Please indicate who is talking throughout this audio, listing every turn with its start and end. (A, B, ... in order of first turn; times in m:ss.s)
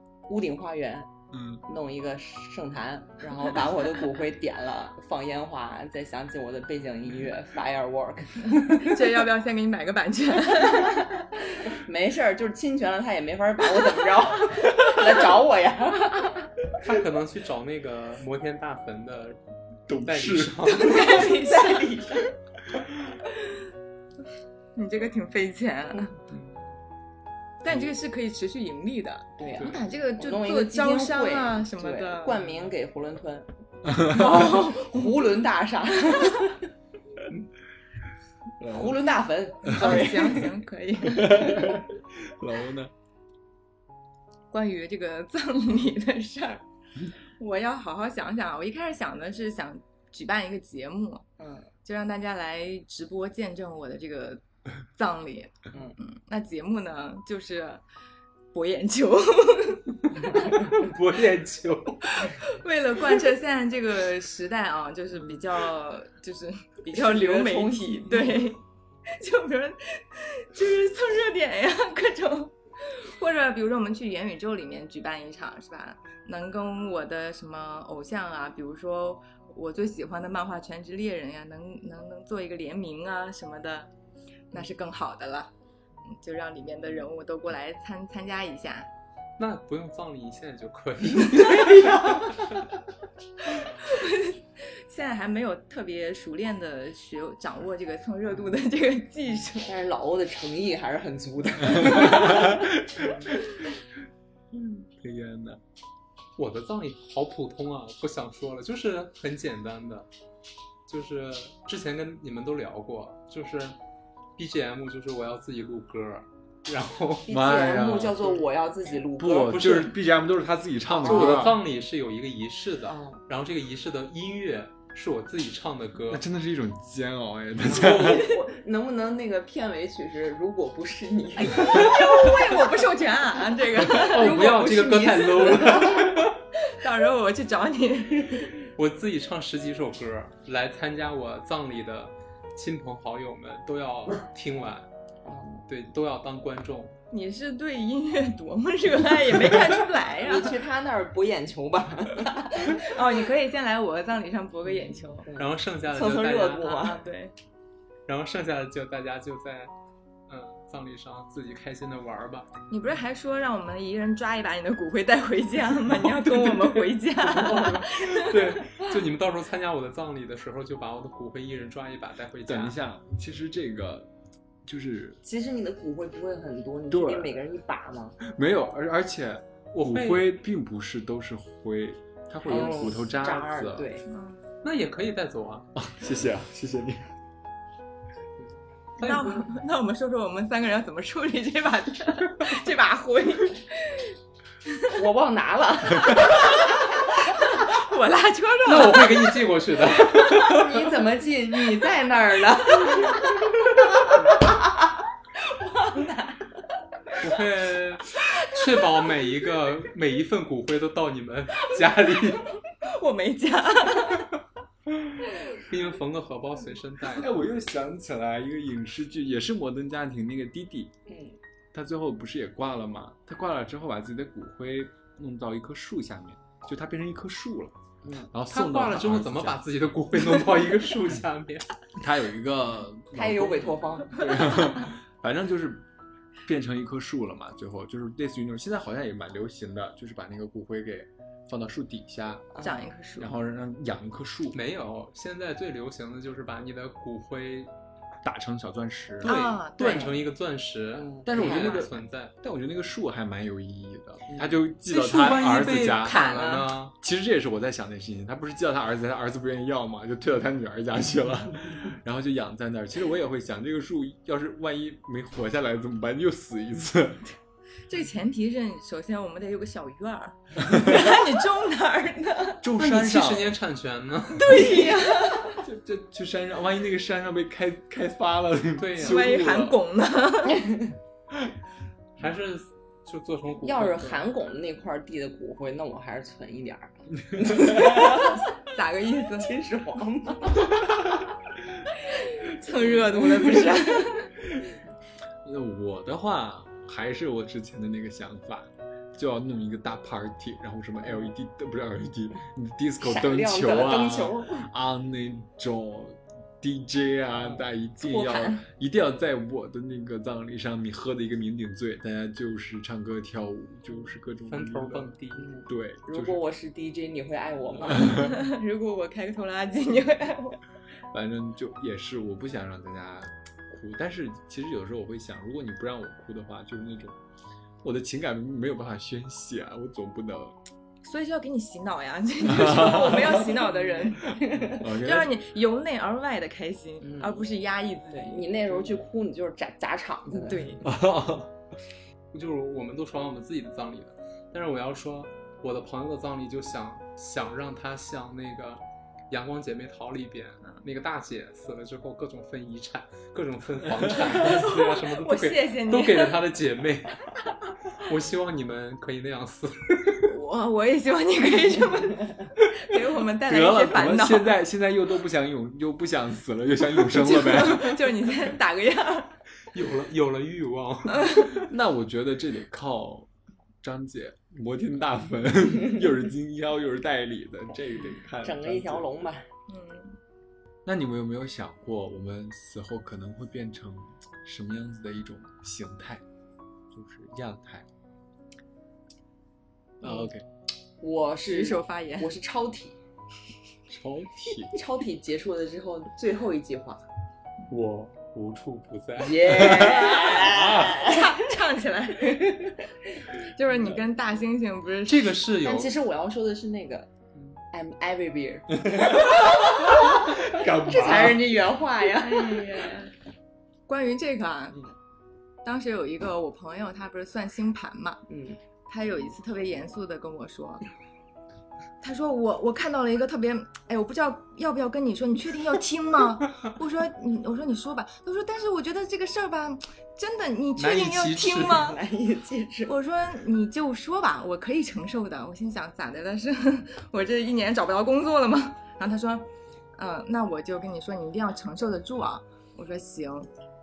0:00.3-0:01.1 A
0:01.3-0:01.6 B
0:01.6-0:09.0 A
0:08.7-0:11.1 C
0:11.6-0:16.5 A
0:16.8-0:19.4 D
0:19.9-0:20.7 B
0:19.9-0:21.3 D
0:20.6-0:22.0 C
0:21.1-0:22.3 A
0:24.7-0:26.2 C
0:26.3-0:26.8 D
0:27.6-0:32.4 C
0:29.4-0:36.7 A
0:29.6-0:29.8 D
0:33.8-0:34.4 B
0:34.1-0:35.3 C
0:36.1-0:36.4 C
0:38.6-0:39.0 B
0:38.6-0:40.5 A
0:39.6-0:41.7 C
0:39.7-0:40.1 B
0:41.0-0:42.9 B
0:44.5-0:46.6 C
0:47.4-0:51.3 C
0:51.4-0:51.7 A
0:51.8-0:57.8 C
0:55.7-0:56.0 A
0:58.5-1:00.1 C
1:00.2-1:02.2 D
1:00.3-1:00.8 A
1:02.0-1:23.9 C
1:06.9-1:08.5 A
1:24.5-1:25.5 C
1:26.0-1:28.9 C
1:29.4-1:32.4 D
1:31.3-1:32.6 A
1:33.5-1:39.7 C
1:39.6-1:43.4 A
1:42.0-1:43.5 B
1:44.5-1:44.9 A
1:45.0-1:45.6 B
1:46.4-1:50.1 D
1:50.9-1:53.8 D
1:54.4-1:57.3 D
1:57.3-1:58.3 B
1:57.3-1:59.9 A
1:59.2-2:01.6 B
1:59.6-1:59.9 D
2:00.9-2:06.2 D
2:01.0-2:01.6 A
2:02.9-2:03.2 A
2:06.1-2:08.3 B
2:07.6-2:12.6 A
2:11.4-2:14.5 C
2:13.8-2:16.3 A
2:13.9-2:16.3 D
2:16.6-2:18.5 C
2:18.6-2:24.9 D
2:25.2-2:25.6 A
2:25.7-2:26.9 D
2:27.1-2:30.6 C
2:30.2-2:32.9 A
2:32.7-2:35.3 C
2:34.7-2:37.0 A
2:35.4-2:36.9 D
2:36.8-2:37.3 C
2:38.1-2:39.7 D
2:40.3-2:42.5 D
2:42.7-2:48.6 C
2:47.3-2:52.8 D
2:52.4-2:54.1 B
2:54.6-2:55.2 B
2:55.2-2:58.2 A
2:56.9-2:57.4 B
2:58.2-3:03.9 B
2:59.7-3:00.3 D
3:02.4-3:04.1 A
3:04.1-3:04.4 C
3:04.6-3:05.7 D
3:05.7-3:07.1 B
3:09.0-3:09.4 D
3:09.0-3:14.1 C
3:14.9-3:16.9 A
3:17.4-3:19.4 C
3:18.6-3:21.0 D
3:20.0-3:24.7 A
3:25.6-3:26.3 C
3:27.2-3:32.5 D
3:28.2-3:28.6 C
3:32.8-3:34.3 C
3:35.5-3:37.3 D
3:37.1-3:40.9 B
3:41.1-3:41.4 A
3:41.7-3:47.8 B
3:48.0-3:48.3 A
3:48.3-3:49.6 B
3:48.5-3:51.7 D
3:52.0-3:55.9 B
3:53.1-3:54.5 A
3:56.4-4:02.5 B
4:02.5-4:02.8 A
4:02.6-4:03.3 C
4:03.2-4:04.6 B
4:04.5-4:07.7 D
4:08.2-4:10.0 B
4:09.2-4:12.3 D
4:09.2-4:10.1 C
4:09.8-4:10.2 A
4:10.9-4:11.8 A
4:11.2-4:16.2 B
4:11.5-4:11.8 C
4:14.3-4:14.5 A
4:14.8-4:16.9 D
4:16.0-4:16.7 A
4:17.0-4:27.3 B
4:27.9-4:32.6 C
4:30.6-4:31.2 B
4:32.6-4:33.5 B
4:32.8-4:34.9 D
4:34.3-4:35.6 C
4:34.6-4:35.0 A
4:35.5-4:39.8 B
4:38.8-4:39.4 D
4:39.0-4:40.7 C
4:42.2-4:44.3 D
4:43.6-4:48.5 A
4:47.4-4:47.7 B
4:48.5-4:49.5 C
4:49.4-4:51.3 A
4:52.2-4:54.4 C
4:52.6-4:54.1 A
4:55.4-5:15.1 B
5:03.0-5:04.7 A
5:07.5-5:08.6 A
5:14.5-5:15.5 D
5:15.3-5:18.4 A
5:15.7-5:16.4 B
5:17.8-5:18.3 B
5:18.1-5:20.6 C
5:21.1-5:27.2 B
5:27.8-5:30.6 B
5:31.0-5:38.8 C
5:32.4-5:33.5 B
5:33.6-5:34.9 A
5:34.2-5:35.3 B
5:37.0-5:37.5 A
5:38.1-5:40.9 A
5:40.3-5:40.9 C
5:40.8-5:41.5 B
5:42.3-5:57.2 D
5:54.2-5:56.4 C
5:57.9-6:00.2 D
6:00.2-6:04.6 C
6:03.4-6:08.3 B
6:07.1-6:09.4 C
6:09.7-6:11.7 D
6:11.1-6:11.5 C
6:11.6-6:13.3 B
6:13.8-6:19.1 B
6:18.4-6:19.5 A
6:19.7-6:20.2 C
6:20.8-6:26.2 B
6:26.9-6:27.9 B
6:30.0-6:30.4 B
6:31.0-6:33.0 A
6:31.4-6:32.3 C
6:33.9-6:34.8 B
6:34.7-6:37.0 A
6:37.7-6:40.3 D
6:39.2-6:41.4 A
6:39.6-6:41.0 B
6:40.9-6:42.7 C
6:42.3-6:42.8 A
6:43.4-6:45.4 C
6:45.1-6:45.9 D
6:45.6-6:47.1 A
6:47.7-6:53.0 A
6:48.8-6:49.3 B
6:49.9-6:51.7 B
6:52.2-6:53.1 C
6:53.9-6:54.8 C
6:55.6-6:58.2 C
6:58.3-6:58.6 A
6:58.9-7:00.8 C
7:02.0-7:12.0 C
7:10.8-7:11.8 D
7:11.7-7:12.9 A
7:12.8-7:23.5 C